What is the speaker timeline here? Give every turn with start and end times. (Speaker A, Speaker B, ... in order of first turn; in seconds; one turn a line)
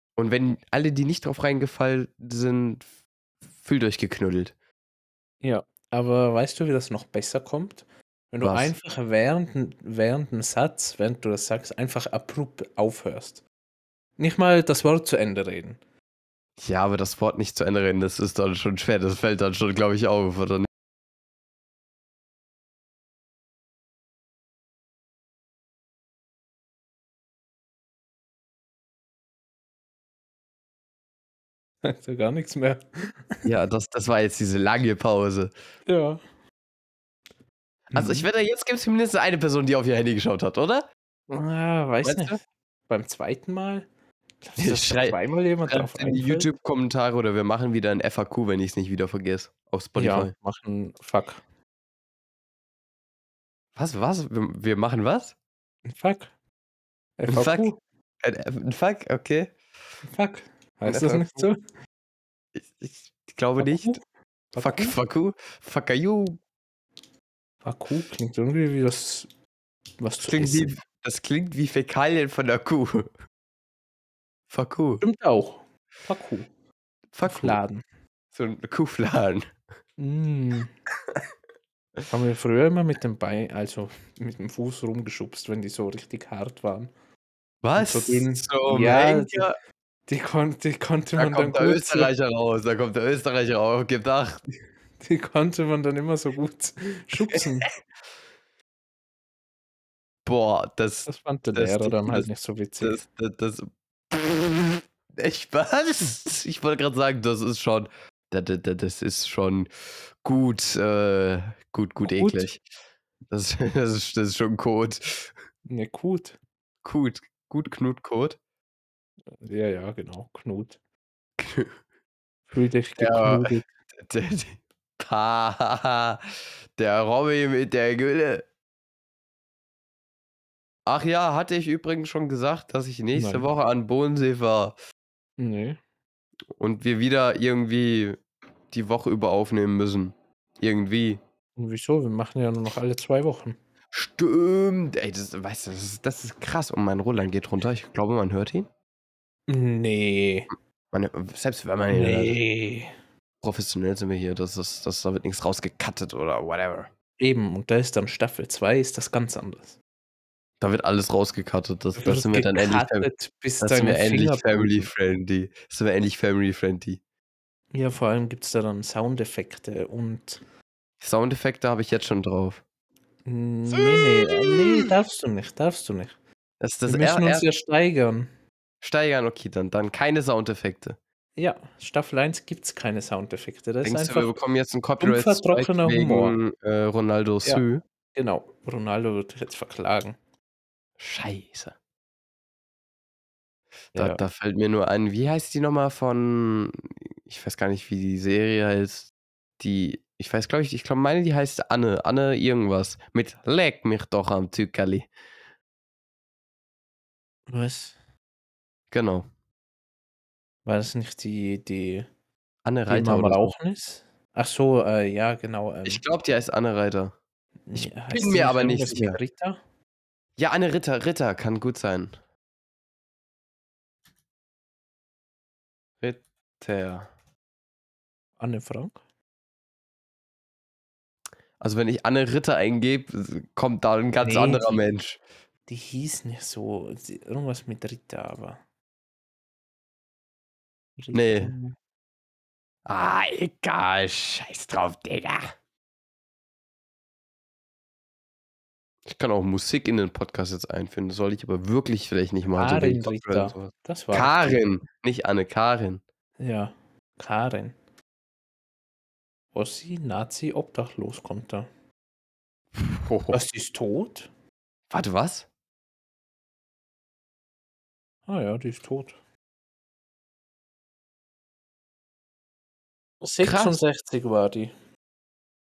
Speaker A: 0.2-2.8
Speaker A: 3.6-4.5
Speaker B: 5.4-13.4
Speaker A: 8.4-8.7
Speaker B: 14.2-15.8
Speaker A: 16.6-20.7
Speaker B: 31.8-33.5
Speaker A: 33.4-35.5
Speaker B: 35.9-36.2
Speaker A: 37.9-40.9
Speaker B: 37.9-38.3
Speaker B: 41.3-43.9
Speaker A: 42.0-42.4
Speaker B: 44.4-46.5
Speaker A: 44.6-50.3
Speaker B: 50.0-51.4
Speaker A: 53.7-55.3
Speaker B: 55.9-56.3
Speaker B: 57.2-57.8
Speaker A: 57.3-59.5
Speaker B: 60.0-61.5
Speaker A: 60.9-61.5
Speaker A: 62.5-64.0
Speaker B: 63.6-64.0
Speaker B: 64.5-65.0
Speaker A: 64.6-66.4
Speaker B: 67.6-69.3
Speaker B: 70.0-70.7
Speaker A: 70.2-73.1
Speaker A: 74.5-75.0
Speaker B: 75.0-76.5
Speaker A: 77.1-77.6
Speaker B: 77.2-77.8
Speaker A: 78.3-79.4
Speaker B: 80.0-80.7
Speaker B: 82.1-86.9
Speaker A: 87.6-89.6
Speaker B: 87.8-89.5
Speaker B: 90.1-92.1
Speaker A: 91.2-94.4
Speaker B: 95.0-97.7
Speaker A: 100.2-102.3
Speaker B: 101.0-103.0
Speaker A: 102.8-109.7
Speaker A: 110.2-112.6
Speaker B: 112.0-112.5
Speaker A: 113.3-115.3
Speaker B: 115.7-116.4
Speaker A: 116.8-118.4
Speaker B: 119.3-120.8
Speaker A: 121.4-121.7
Speaker B: 122.5-123.7
Speaker A: 123.0-128.4
Speaker A: 130.8-134.8
Speaker B: 133.1-133.5
Speaker B: 135.4-135.8
Speaker A: 136.6-141.2
Speaker B: 141.6-143.6
Speaker A: 143.9-148.7
Speaker B: 149.5-150.5
Speaker A: 150.9-152.3
Speaker B: 151.9-152.9
Speaker A: 153.4-156.9
Speaker B: 157.2-159.8
Speaker A: 160.6-163.1
Speaker B: 161.9-164.9
Speaker A: 163.6-167.0
Speaker B: 167.7-170.4
Speaker A: 171.0-172.6
Speaker B: 173.2-176.2
Speaker A: 173.7-174.9
Speaker A: 176.6-177.5
Speaker B: 176.9-178.3
Speaker A: 178.8-181.0
Speaker B: 181.3-184.4
Speaker A: 183.8-187.8
Speaker B: 185.0-186.4
Speaker B: 188.1-190.2
Speaker A: 191.0-191.7
Speaker B: 193.9-194.2
Speaker A: 193.9-205.1
Speaker B: 207.5-207.9
Speaker A: 208.9-209.3
Speaker B: 210.6-212.1
Speaker A: 212.6-213.5
Speaker B: 212.9-216.0
Speaker A: 215.8-217.1
Speaker B: 217.7-219.6
Speaker A: 217.7-219.2
Speaker A: 220.4-222.1
Speaker A: 226.0-227.1
Speaker B: 228.4-229.0
Speaker A: 231.6-235.2
Speaker B: 234.2-234.8
Speaker B: 235.7-238.6
Speaker B: 241.0-241.8
Speaker A: 241.1-241.5
Speaker A: 242.8-245.5
Speaker A: 249.1-256.0
Speaker B: 252.6-254.6
Speaker B: 256.4-257.8
Speaker B: 259.5-261.7
Speaker A: 262.7-263.4
Speaker B: 263.3-264.3
Speaker A: 264.9-265.5
Speaker B: 268.3-269.1
Speaker B: 273.2-274.7
Speaker A: 273.4-273.8